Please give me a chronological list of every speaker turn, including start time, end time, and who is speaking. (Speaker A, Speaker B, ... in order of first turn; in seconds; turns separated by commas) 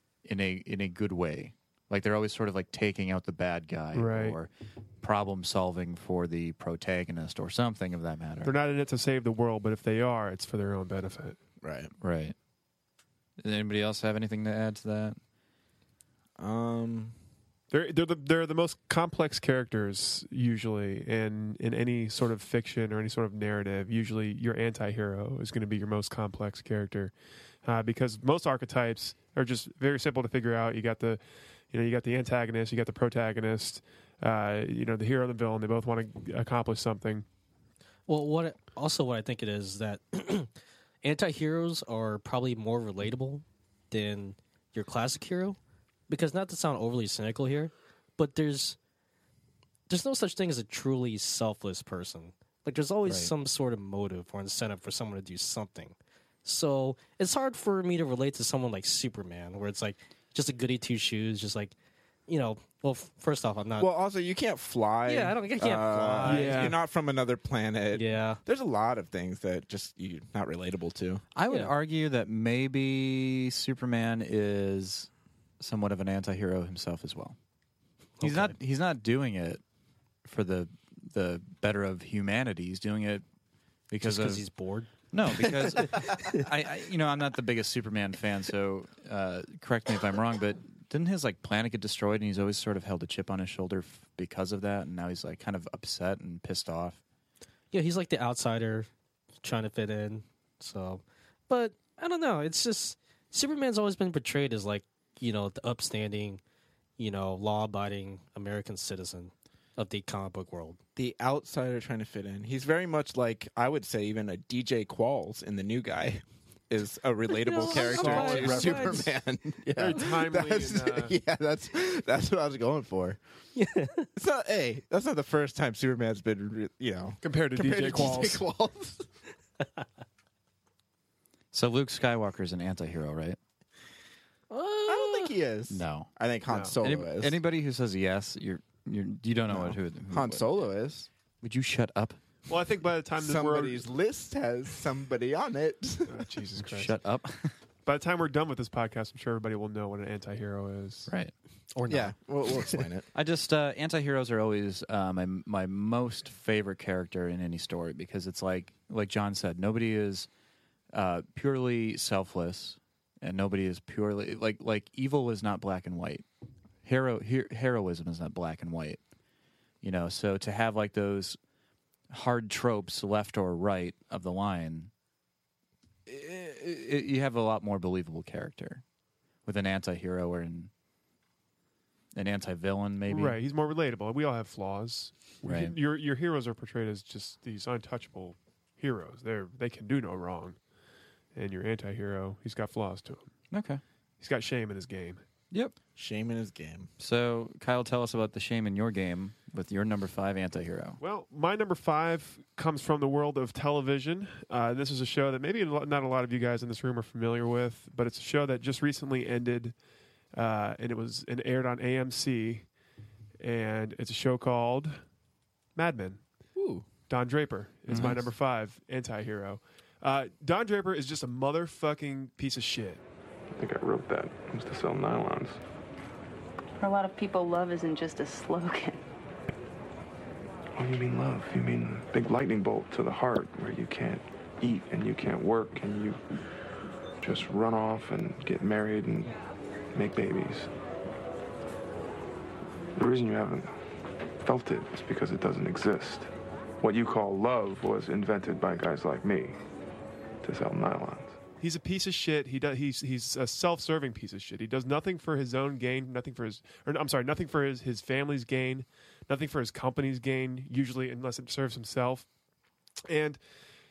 Speaker A: 0.2-4.5, Speaker B: 3.9-4.4, Speaker A: 5.0-8.5, Speaker B: 8.4-11.4, Speaker C: 11.6-11.9, Speaker A: 12.0-12.3, Speaker A: 13.4-15.2, Speaker C: 16.4-17.1, Speaker B: 17.7-27.1, Speaker B: 27.6-37.2, Speaker D: 38.1-40.5, Speaker D: 41.0-45.6, Speaker D: 46.1-48.8, Speaker D: 49.9-61.7, Speaker A: 53.0-53.3, Speaker D: 62.3-63.9, Speaker C: 63.8-71.2, Speaker D: 65.0-66.7, Speaker B: 66.2-66.8, Speaker D: 67.9-68.4, Speaker A: 71.3-77.3, Speaker D: 78.2-78.5, Speaker A: 78.2-79.6, Speaker A: 80.2-83.2, Speaker A: 83.9-84.4, Speaker D: 84.0-84.9, Speaker A: 85.1-97.0, Speaker D: 85.8-86.3, Speaker D: 97.7-98.9, Speaker D: 99.4-106.4, Speaker D: 107.0-110.8, Speaker C: 111.0-123.2, Speaker D: 117.3-119.0, Speaker B: 117.8-119.0, Speaker B: 119.7-121.2, Speaker D: 123.5-124.1, Speaker C: 124.2-129.1, Speaker B: 127.2-128.4, Speaker A: 131.5-133.4, Speaker D: 134.5-135.3, Speaker C: 134.9-137.4, Speaker A: 135.7-136.1, Speaker B: 136.5-136.7, Speaker A: 136.8-140.5, Speaker C: 139.5-141.1, Speaker A: 141.4-142.2, Speaker B: 142.5-143.8, Speaker C: 143.2-146.2, Speaker B: 146.1-146.9, Speaker A: 146.6-147.6, Speaker B: 147.8-151.1, Speaker D: 151.7-152.1, Speaker C: 151.9-153.1, Speaker A: 153.1-160.3, Speaker A: 160.9-166.2, Speaker A: 166.8-169.0, Speaker A: 169.8-171.4, Speaker A: 172.1-174.9, Speaker A: 176.1-178.8, Speaker A: 179.4-180.7, Speaker A: 182.1-183.4, Speaker B: 183.1-190.6, Speaker A: 185.4-185.8, Speaker B: 191.3-193.3, Speaker A: 193.5-193.8, Speaker B: 194.2-195.2, Speaker C: 195.9-196.9, Speaker A: 197.0-201.0, Speaker B: 201.0-209.7, Speaker B: 210.3-212.6, Speaker B: 213.4-215.0, Speaker B: 215.7-216.2, Speaker C: 216.6-216.8, Speaker B: 217.1-223.0, Speaker A: 217.9-218.2, Speaker E: 223.5-225.6, Speaker F: 226.8-229.0, Speaker E: 230.8-236.2, Speaker E: 237.2-239.3, Speaker E: 239.9-240.7, Speaker E: 242.9-243.8, Speaker E: 244.4-246.3, Speaker E: 246.8-249.6, Speaker E: 250.4-251.4, Speaker B: 251.6-262.3, Speaker B: 263.1-263.4